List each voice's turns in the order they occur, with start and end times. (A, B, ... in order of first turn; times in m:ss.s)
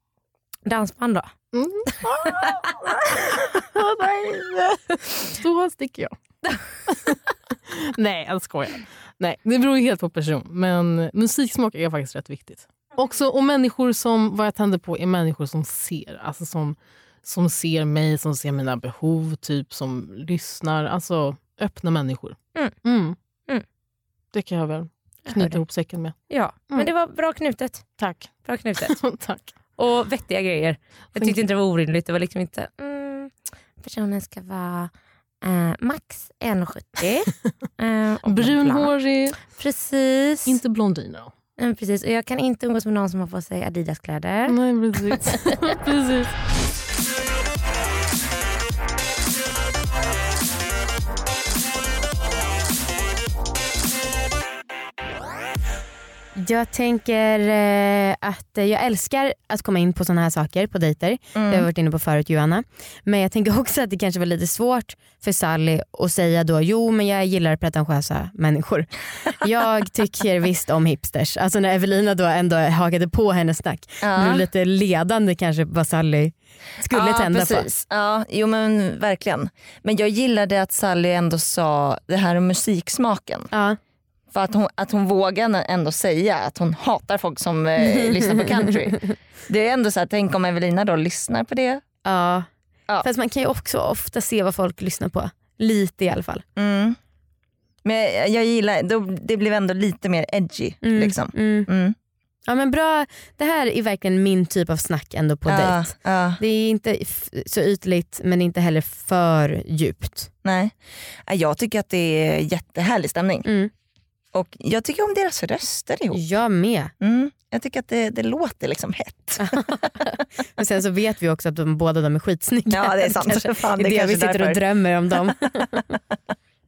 0:00.6-0:01.3 A
0:01.5-0:06.1 B
0:06.9-0:23.2 B
0:24.3-0:26.2 B
0:25.3-0:25.6 A
0:26.3-0:27.9 A
0:28.0-0:28.3 B
0:28.4-0:29.0 A
0:28.8-0:29.5 B
0:29.8-0:34.9 A
0:35.4-0:40.6 A
0:38.2-0:39.4 B
0:40.4-0:41.3 B
0:41.6-0:44.6 A
0:44.5-0:46.3 B
0:45.1-0:45.4 A
0:56.4-1:17.7 C
1:01.3-1:01.7 D
1:14.0-1:14.4 D
1:16.9-1:23.5 D
1:23.5-1:23.8 C
1:24.3-1:31.8 D
1:28.2-1:28.5 C
1:32.0-1:32.5 C
1:33.0-1:36.4 C
1:36.6-1:37.0 D
1:37.8-1:41.9 D
1:40.8-1:41.7 C
1:42.5-1:50.3 C
1:45.5-1:46.4 D
1:50.4-1:50.7 D
1:51.2-1:53.5 D
1:53.4-1:53.7 C
1:54.3-1:56.2 D
1:56.1-1:56.9 C
1:57.0-1:59.6 D
1:59.4-2:05.9 C
2:02.7-2:04.6 D